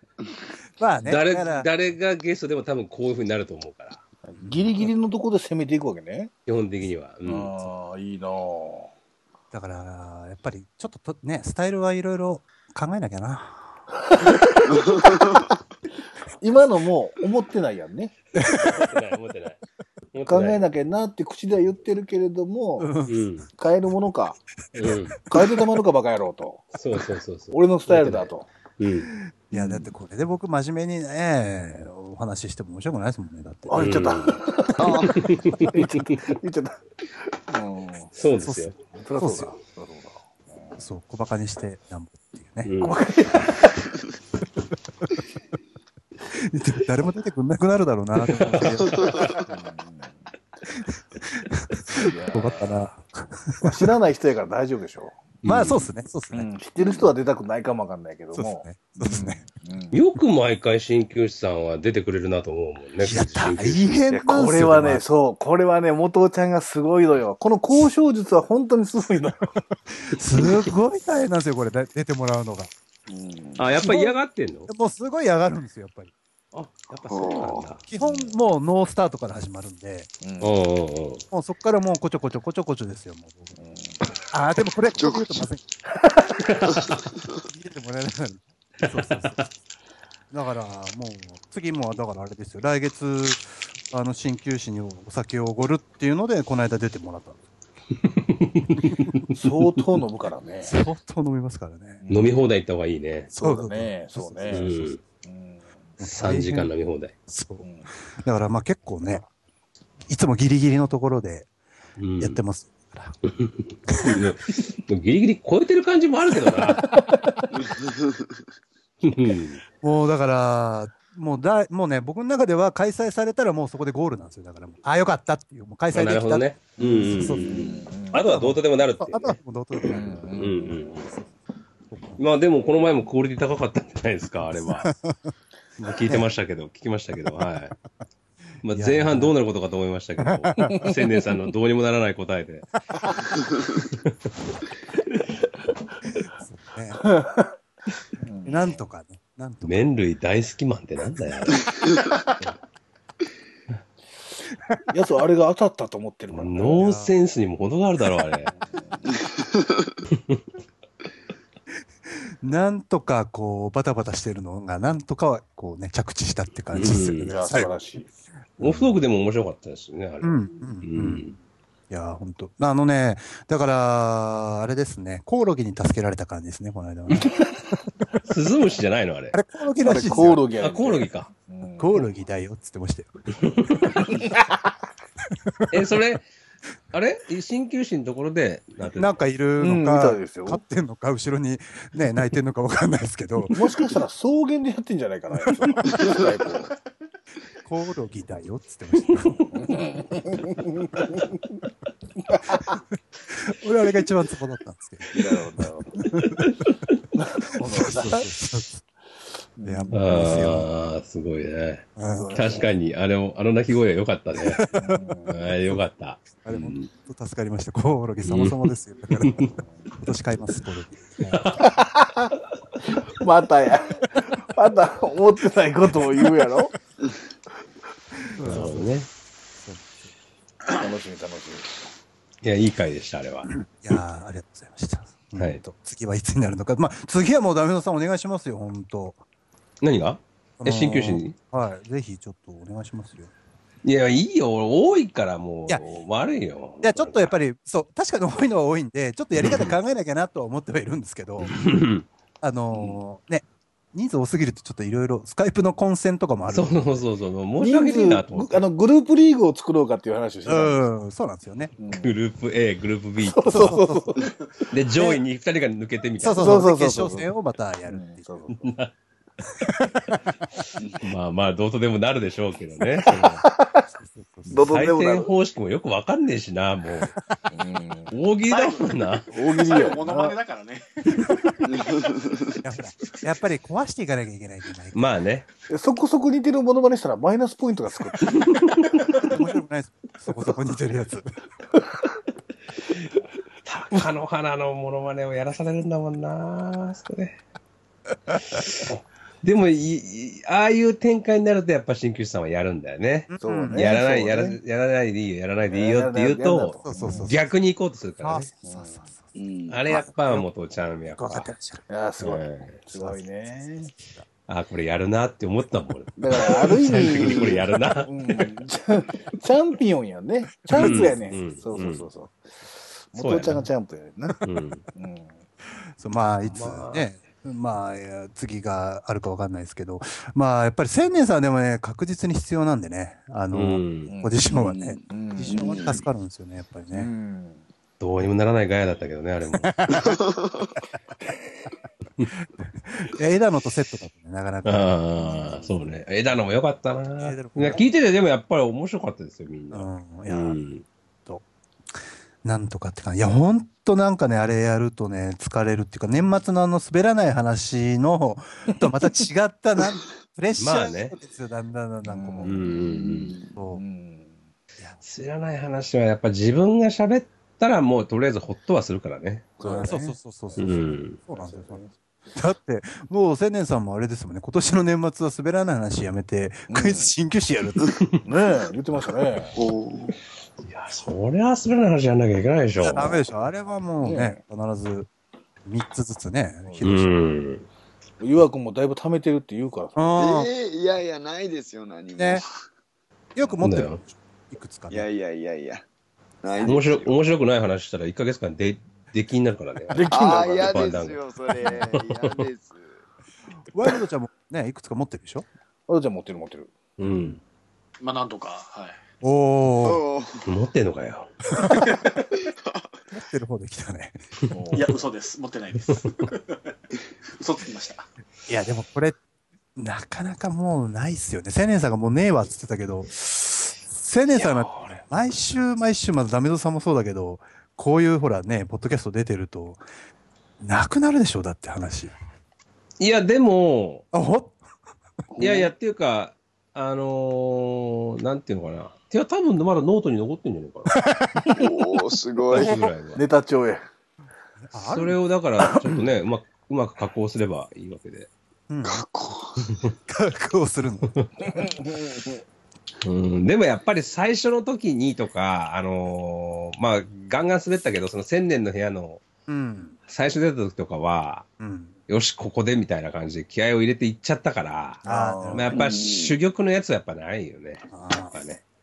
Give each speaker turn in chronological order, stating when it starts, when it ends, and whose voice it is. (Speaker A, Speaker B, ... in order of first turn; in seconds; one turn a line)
Speaker A: 0.8-1.7
Speaker B: 1.1-4.0
Speaker C: 4.2-6.3
Speaker B: 6.5-7.7
Speaker C: 7.2-8.9
Speaker A: 9.5-13.8
Speaker C: 14.2-15.2
Speaker D: 14.7-15.4
Speaker C: 16.4-18.1
Speaker A: 18.4-18.8
Speaker B: 18.6-19.6
Speaker B: 20.1-20.7
Speaker C: 20.3-22.9
Speaker A: 22.8-23.2
Speaker B: 23.1-23.5
Speaker C: 23.5-24.4
Speaker B: 24.7-25.2
Speaker C: 25.3-26.7
Speaker B: 26.7-29.1
Speaker C: 27.5-28.4
Speaker A: 29.5-34.0
Speaker C: 29.5-29.9
Speaker C: 33.7-36.8
Speaker B: 33.8-34.4
Speaker D: 34.8-35.2
Speaker B: 35.0-36.3
Speaker C: 37.5-38.1
Speaker B: 38.1-38.8
Speaker A: 38.4-39.5
Speaker C: 39.0-40.8
Speaker A: 40.8-42.7
Speaker B: 42.6-43.5
Speaker C: 42.8-43.8
Speaker A: 46.3-49.3
Speaker B: 48.3-49.1
Speaker D: 48.9-49.4
Speaker C: 49.4-50.2
Speaker A: 50.7-53.9
Speaker C: 51.9-52.8
Speaker C: 53.6-55.2
Speaker B: 55.4-55.9
Speaker A: 55.4-56.5
Speaker C: 56.3-60.0
Speaker D: 56.8-57.1
Speaker A: 58.3-59.4
Speaker B: 59.9-63.9
Speaker A: 63.0-65.0
Speaker C: 64.1-69.5
Speaker A: 69.9-72.7
Speaker C: 73.1-73.6
Speaker B: 73.6-74.7
Speaker A: 73.8-74.2
Speaker A: 74.7-76.1
Speaker B: 76.5-77.8
Speaker D: 77.1-77.7
Speaker A: 77.9-80.1
Speaker C: 78.0-78.3
Speaker C: 80.2-80.5
Speaker B: 80.4-81.2
Speaker A: 81.3-83.5
Speaker C: 83.5-84.0
Speaker A: 84.3-85.6
Speaker D: 85.0-85.4
Speaker B: 86.4-87.0
Speaker A: 87.5-89.5
Speaker B: 89.0-89.4
Speaker A: 90.3-97.4
Speaker B: 98.1-99.3
Speaker C: 99.3-100.8
Speaker A: 100.6-102.0
Speaker C: 102.0-102.3
Speaker B: 102.1-103.3
Speaker C: 103.3-104.7
Speaker A: 103.4-104.9
Speaker B: 104.5-105.0
Speaker C: 105.2-105.7
Speaker A: 106.0-106.7
Speaker B: 106.0-107.1
Speaker A: 107.3-107.7
Speaker C: 107.6-107.9
Speaker A: 108.2-109.2
Speaker A: 110.1-111.5
Speaker B: 112.0-112.4
Speaker A: 112.2-113.2
Speaker B: 113.2-116.9
Speaker A: 113.9-114.1
Speaker D: 117.8-118.1
Speaker B: 119.0-119.6
Speaker A: 119.8-127.7
Speaker B: 125.9-131.1
Speaker C: 126.8-128.2
Speaker A: 128.2-131.3
Speaker C: 129.9-130.8
Speaker A: 131.9-132.2
Speaker B: 132.2-134.9
Speaker A: 134.5-136.3
Speaker B: 135.8-137.7
Speaker B: 138.6-142.7
Speaker A: 138.7-139.3
Speaker A: 140.2-140.8
Speaker A: 146.4-147.1
Speaker C: 147.2-147.5
Speaker C: 148.2-148.8
Speaker A: 148.4-149.9
Speaker B: 149.6-151.7
Speaker C: 154.9-156.8
Speaker B: 156.3-158.5
Speaker A: 156.8-157.1
Speaker C: 158.5-159.0
Speaker A: 162.1-167.7
Speaker B: 166.7-167.3
Speaker C: 167.2-168.1
Speaker A: 168.6-169.0
Speaker B: 168.6-171.3
Speaker A: 170.2-171.3
Speaker A: 171.9-177.5
Speaker B: 178.2-179.4
Speaker A: 179.3-180.5
Speaker C: 179.8-182.1
Speaker B: 180.5-181.3
Speaker A: 181.8-183.1
Speaker B: 183.4-184.0
Speaker C: 184.0-184.5
Speaker A: 185.3-185.6
Speaker B: 185.7-186.3
Speaker B: 186.9-189.2
Speaker A: 188.9-193.9
Speaker C: 189.6-190.6
Speaker C: 193.5-196.7
Speaker A: 195.3-196.1
Speaker A: 197.6-199.8
Speaker C: 199.5-201.0
Speaker C: 202.3-202.7
Speaker A: 203.3-206.5
Speaker C: 205.1-206.4
Speaker C: 207.2-208.3
Speaker A: 207.6-208.8
Speaker C: 209.6-210.1
Speaker A: 209.6-210.7
Speaker B: 209.9-214.6
Speaker A: 211.9-212.6
Speaker C: 212.1-212.7
Speaker A: 214.4-215.2
Speaker C: 214.8-215.4
Speaker B: 215.2-216.9
Speaker A: 216.4-221.6
Speaker B: 218.2-218.7
Speaker B: 219.2-219.5
Speaker C: 219.6-219.9
Speaker B: 221.2-221.7
Speaker C: 221.6-222.3
Speaker C: 222.9-226.7
Speaker A: 228.3-228.9
Speaker B: 228.4-229.1
Speaker A: 229.6-230.0
Speaker C: 230.7-231.7
Speaker B: 232.4-233.5
Speaker A: 233.5-239.2
Speaker B: 235.3-235.6
Speaker B: 239.8-241.3
Speaker A: 240.6-243.3
Speaker B: 243.8-247.3
Speaker A: 246.8-251.6
Speaker B: 249.3-249.8
Speaker B: 251.4-252.0
Speaker A: 252.4-256.9
Speaker C: 252.7-253.0
Speaker B: 256.5-258.6
Speaker C: 257.6-260.8
Speaker A: 260.4-261.7
Speaker C: 261.8-262.1
Speaker B: 262.0-263.8
Speaker C: 263.2-264.4
Speaker A: 263.5-264.2
Speaker B: 264.7-266.7
Speaker A: 266.2-268.2
Speaker C: 266.4-267.3
Speaker C: 267.9-268.7
Speaker B: 268.6-268.9
Speaker A: 269.6-270.0
Speaker B: 271.0-273.4
Speaker C: 273.4-273.8
Speaker A: 273.9-274.8
Speaker C: 274.5-275.3
Speaker B: 274.6-277.1
Speaker C: 277.5-278.1
Speaker B: 278.1-279.3
Speaker E: 278.5-281.4
Speaker C: 279.3-280.4
Speaker D: 281.7-282.5
Speaker A: 282.6-285.0
Speaker B: 284.9-285.4
Speaker C: 285.7-288.5
Speaker A: 289.1-291.3
Speaker B: 293.6-297.4
Speaker B: 298.6-308.5
Speaker A: 303.3-303.9
Speaker C: 303.4-304.6
Speaker C: 305.7-307.3
Speaker A: 306.8-307.4
Speaker A: 308.2-309.3
Speaker C: 308.6-309.1
Speaker D: 309.3-309.8
Speaker B: 309.7-311.5
Speaker A: 309.9-310.5
Speaker A: 311.1-311.9
Speaker C: 311.9-313.9
Speaker B: 312.2-312.8
Speaker A: 312.9-314.2
Speaker B: 314.5-318.6
Speaker C: 316.2-325.4
Speaker B: 320.7-322.1
Speaker A: 320.7-321.4
Speaker B: 323.1-323.6
Speaker B: 324.4-324.8
Speaker A: 326.0-337.1
Speaker B: 326.4-327.1
Speaker B: 333.5-334.1
Speaker C: 334.1-334.4
Speaker D: 334.5-336.0
Speaker C: 335.1-335.8
Speaker C: 336.9-337.6
Speaker B: 338.0-339.8
Speaker A: 339.6-340.2
Speaker D: 340.0-340.7
Speaker A: 342.6-345.0
Speaker B: 344.6-350.9
Speaker A: 347.2-347.8
Speaker A: 349.7-350.6
Speaker A: 352.4-362.7
Speaker B: 360.6-361.1
Speaker C: 362.1-362.8
Speaker B: 362.4-363.4
Speaker D: 362.9-363.5
Speaker A: 363.5-363.8
Speaker C: 363.7-364.4
Speaker B: 365.0-369.5
Speaker C: 369.6-370.8
Speaker A: 369.6-377.9
Speaker B: 370.6-371.2
Speaker C: 371.3-371.9
Speaker C: 376.7-377.1
Speaker C: 378.2-379.5
Speaker D: 379.6-380.1
Speaker B: 380.6-383.2
Speaker A: 382.8-385.1
Speaker C: 384.0-384.4
Speaker A: 385.6-387.1
Speaker C: 386.6-386.9
Speaker B: 386.8-387.6
Speaker C: 388.2-390.2
Speaker A: 389.9-390.5
Speaker D: 390.2-392.5
Speaker A: 392.1-392.4
Speaker A: 393.3-395.1
Speaker B: 393.6-394.0
Speaker D: 394.9-395.8
Speaker D: 396.4-397.1
Speaker B: 396.6-401.2
Speaker C: 399.9-400.8
Speaker D: 400.1-402.9
Speaker B: 401.7-402.4
Speaker A: 403.7-405.4
Speaker C: 405.9-406.7
Speaker B: 407.0-407.4
Speaker E: 408.0-409.0
Speaker A: 409.2-410.0
Speaker D: 409.8-410.4
Speaker B: 410.4-411.3
Speaker A: 411.5-412.0
Speaker E: 411.6-412.3
Speaker A: 413.1-414.2
Speaker C: 414.5-414.9
Speaker E: 414.7-416.6
Speaker E: 417.4-418.0
Speaker A: 418.5-419.2
Speaker A: 419.8-429.8
Speaker A: 430.6-432.1
Speaker B: 433.0-434.0
Speaker A: 434.1-434.6
Speaker C: 435.4-435.7
Speaker B: 435.4-441.0
Speaker A: 440.9-441.5
Speaker D: 441.5-442.8
Speaker B: 442.5-443.2
Speaker C: 442.6-443.8
Speaker A: 444.7-445.2
Speaker B: 444.8-448.3
Speaker A: 448.7-449.0
Speaker D: 448.8-449.7
Speaker A: 450.1-451.1
Speaker C: 451.4-452.4
Speaker B: 453.0-459.2
Speaker A: 459.5-460.0
Speaker B: 460.1-461.4
Speaker A: 461.6-461.9
Speaker B: 462.1-468.6
Speaker C: 465.0-465.7
Speaker A: 465.0-465.7
Speaker D: 465.7-466.3
Speaker A: 467.9-468.3